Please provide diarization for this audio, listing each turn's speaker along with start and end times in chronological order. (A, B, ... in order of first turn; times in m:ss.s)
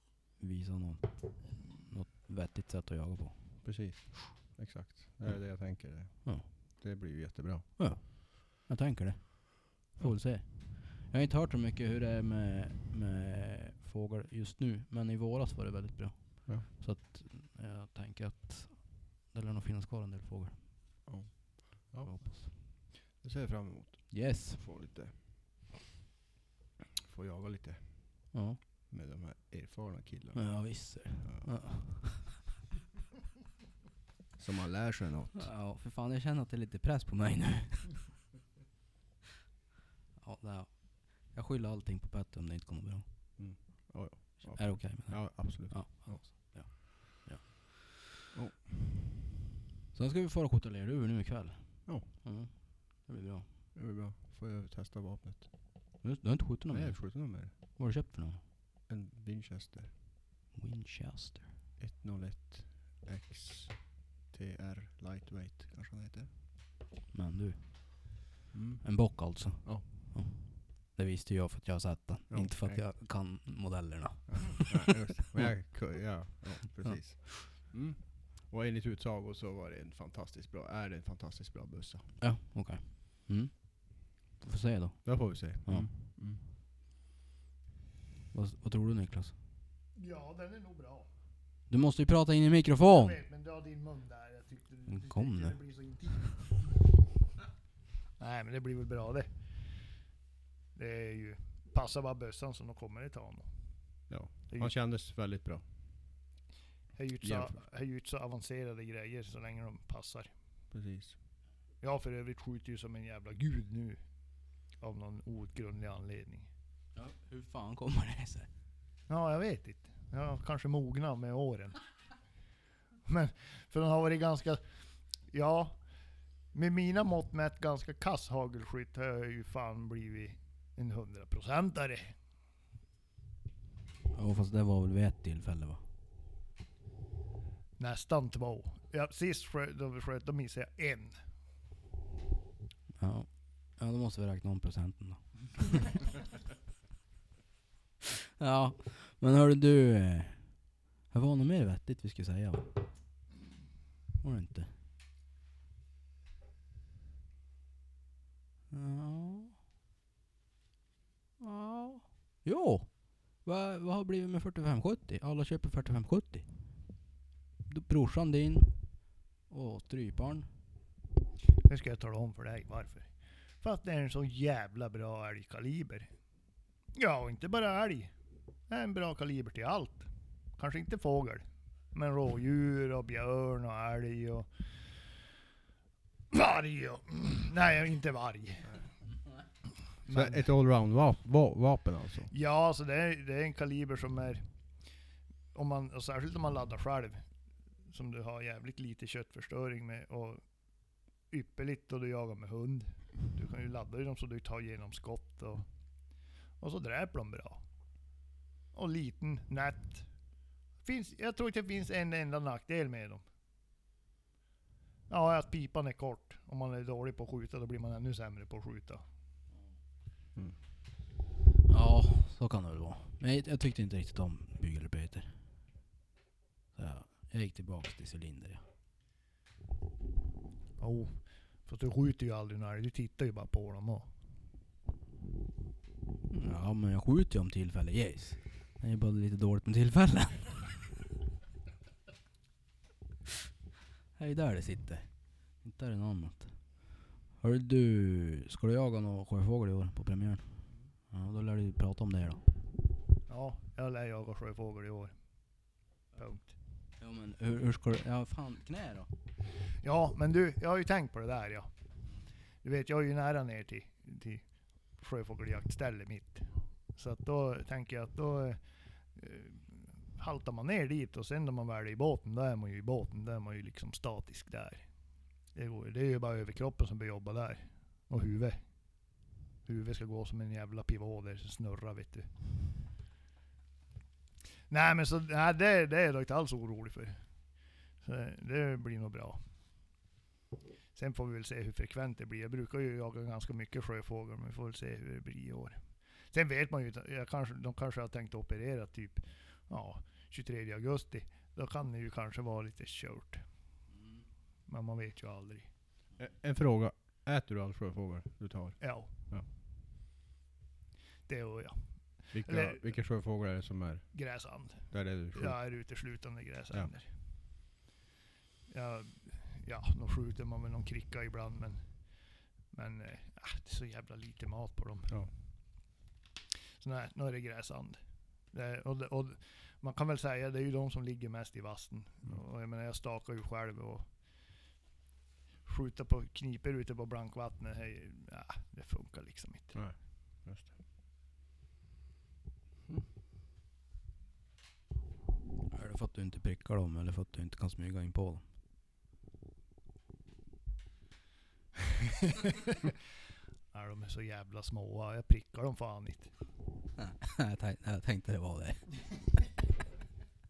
0:00.4-0:03.5 A
0:03.6-0:07.8 B
0:07.8-0:20.6 A
0:21.1-0:25.6 B
0:22.0-0:22.5 A
0:24.1-0:24.6 A
0:27.0-0:28.3 B
0:28.3-0:28.6 A
0:28.9-0:31.5 B
0:30.4-0:32.3 A
0:34.4-0:35.5 B
0:35.4-0:38.1 A
0:40.2-0:43.1 A
0:43.4-0:46.7 B
0:44.5-0:48.0 A
0:48.3-0:49.0 B
0:49.9-0:53.5 A
0:53.8-0:55.5 B
0:56.0-0:58.4 A
0:56.7-0:57.6 B
0:58.9-0:59.9 B
1:00.6-1:01.5 A
1:01.8-1:06.3 B
1:07.1-1:08.2 A
1:08.5-1:09.9 B
1:08.8-1:15.5 A
1:12.3-1:12.8 B
1:14.3-1:22.1 B
1:22.2-1:25.9 A
1:25.1-1:26.4 B
1:28.3-1:29.3 A
1:30.0-1:31.1 C
1:31.7-1:33.2 A
1:32.8-1:36.6 C
1:34.9-1:35.6 A
1:38.2-1:39.3 C
1:40.8-1:43.5 C
1:44.1-1:45.6 B
1:47.0-1:50.3 C
1:47.2-1:47.6 B
1:50.7-1:51.2 B
1:51.8-1:54.0 C
1:54.8-1:56.5 C
1:57.0-1:58.5 A
1:59.1-2:01.8 C
2:03.1-2:04.6 C
2:05.3-2:05.8 C
2:06.5-2:12.1 C
2:14.1-2:15.8 A
2:17.8-2:21.2 C
2:23.0-2:26.1 A
2:28.2-2:32.8 A
2:34.2-2:34.7 A
2:38.7-2:39.6 A
2:41.4-2:46.5 A
2:47.7-2:48.8 A
2:49.5-2:50.5 A
2:51.6-2:53.1 C
2:53.6-2:56.1 C
2:57.0-2:58.1 C
2:58.7-3:04.5 C
3:06.3-3:08.8 C
3:10.1-3:10.4 C
3:10.1-3:12.3 B
3:12.3-3:14.4 C
3:15.5-3:17.2 C
3:17.9-3:20.4 C
3:21.3-3:25.7 C
3:26.6-3:27.6 C
3:28.7-3:30.1 C
3:30.8-3:33.2 C
3:35.1-3:39.0 C
3:41.7-3:45.3 A
3:46.8-3:48.6 A
3:50.8-3:54.1 C
3:56.3-4:00.8 A
4:04.2-4:05.1 A
4:05.6-4:06.6 A
4:07.4-4:10.5 A
4:11.1-4:12.4 A
4:13.3-4:15.1 C
4:16.2-4:16.5 C
4:17.0-4:19.1 A
4:19.8-4:21.7 C
4:22.6-4:24.4 C
4:25.0-4:28.6 C
4:29.2-4:34.9 C
4:35.6-4:38.6 C
4:39.6-4:42.3 C
4:44.7-4:47.2 C
4:48.0-4:49.4 C
4:51.0-4:55.8 C
4:56.3-5:03.4 C
5:04.7-5:05.7 C
5:06.2-5:09.5 B
5:08.8-5:09.1 C
5:11.3-5:12.8 C
5:12.3-5:14.2 B
5:14.1-5:17.1 C
5:14.9-5:15.6 B
5:18.7-5:21.8 C
5:22.7-5:25.2 C
5:26.8-5:28.0 C
5:28.5-5:34.1 C
5:35.7-5:39.8 C
5:39.7-5:40.7 B
5:45.7-5:48.4 A
5:52.0-5:52.9 C
5:53.7-5:56.3 C
5:57.0-5:59.0 A